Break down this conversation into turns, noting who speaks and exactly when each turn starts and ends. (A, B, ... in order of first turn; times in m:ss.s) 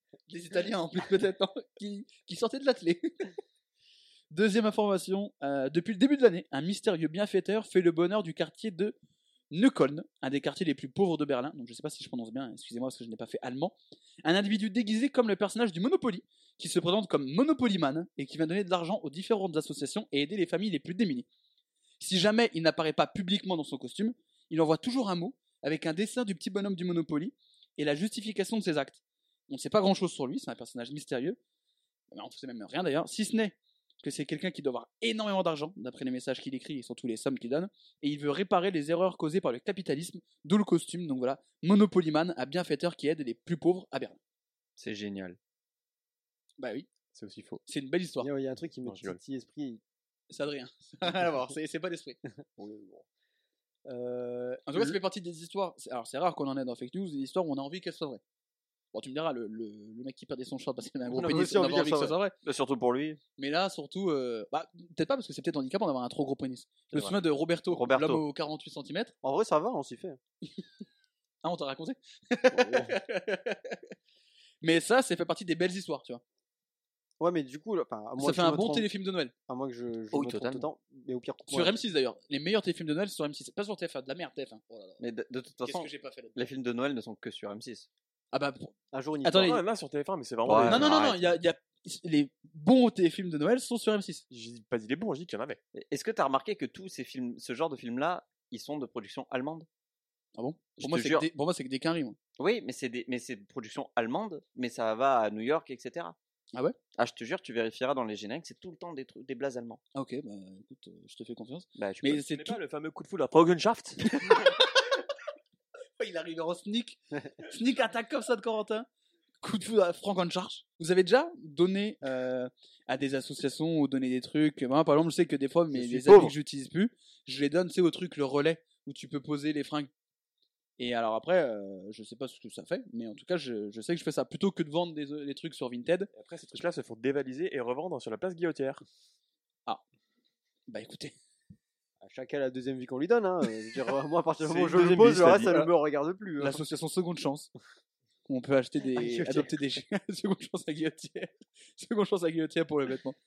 0:00.3-0:03.3 A
0:04.3-0:08.9 A
0:09.5-0:21.3 A
0:22.0-0:31.4 A
0:32.1-0:44.2 A
0:44.8-0:45.4 B
0:46.6-0:46.9 A
0:47.1-0:47.6 C
0:47.6-0:48.3 A
0:48.2-0:49.8 D
0:48.8-0:49.2 C
0:50.3-0:52.2 A
0:52.6-0:53.0 B
0:53.8-0:54.8 D
0:54.7-0:58.2 A
0:58.9-1:02.3 A
1:01.1-1:02.2 D
1:02.4-1:03.2 B
1:03.4-1:09.1 A
1:07.7-1:08.2 B
1:09.2-1:10.2 D
1:11.4-1:13.9 A
1:14.6-1:16.2 A
1:17.2-1:18.9 D
1:18.2-1:19.3 A
1:19.5-1:21.8 D
1:20.1-1:20.7 B
1:21.5-1:25.0 A
1:25.0-1:27.9 B
1:25.6-1:26.5 A
1:28.3-1:29.6 A
1:28.9-1:29.6 D
1:29.4-1:31.0 C
1:30.4-1:31.3 B
1:30.6-1:34.2 A
1:34.3-1:35.6 C
1:35.7-1:39.7 B
1:40.4-1:42.2 A
1:40.8-1:41.3 B
1:42.4-1:46.2 B
1:46.9-1:49.8 B
1:49.9-1:52.6 A
1:51.8-1:52.2 B
1:52.2-1:54.3 C
1:54.1-1:54.8 A
1:56.0-1:58.9 A
1:59.4-2:09.9 A
2:05.7-2:06.3 D
2:10.8-2:16.1 A
2:16.1-2:18.8 C
2:20.7-2:21.1 A
2:22.0-2:26.6 D
2:24.5-2:25.5 C
2:24.7-2:25.7 A
2:26.4-2:27.5 A
2:28.3-2:33.2 A
2:28.9-2:29.5 D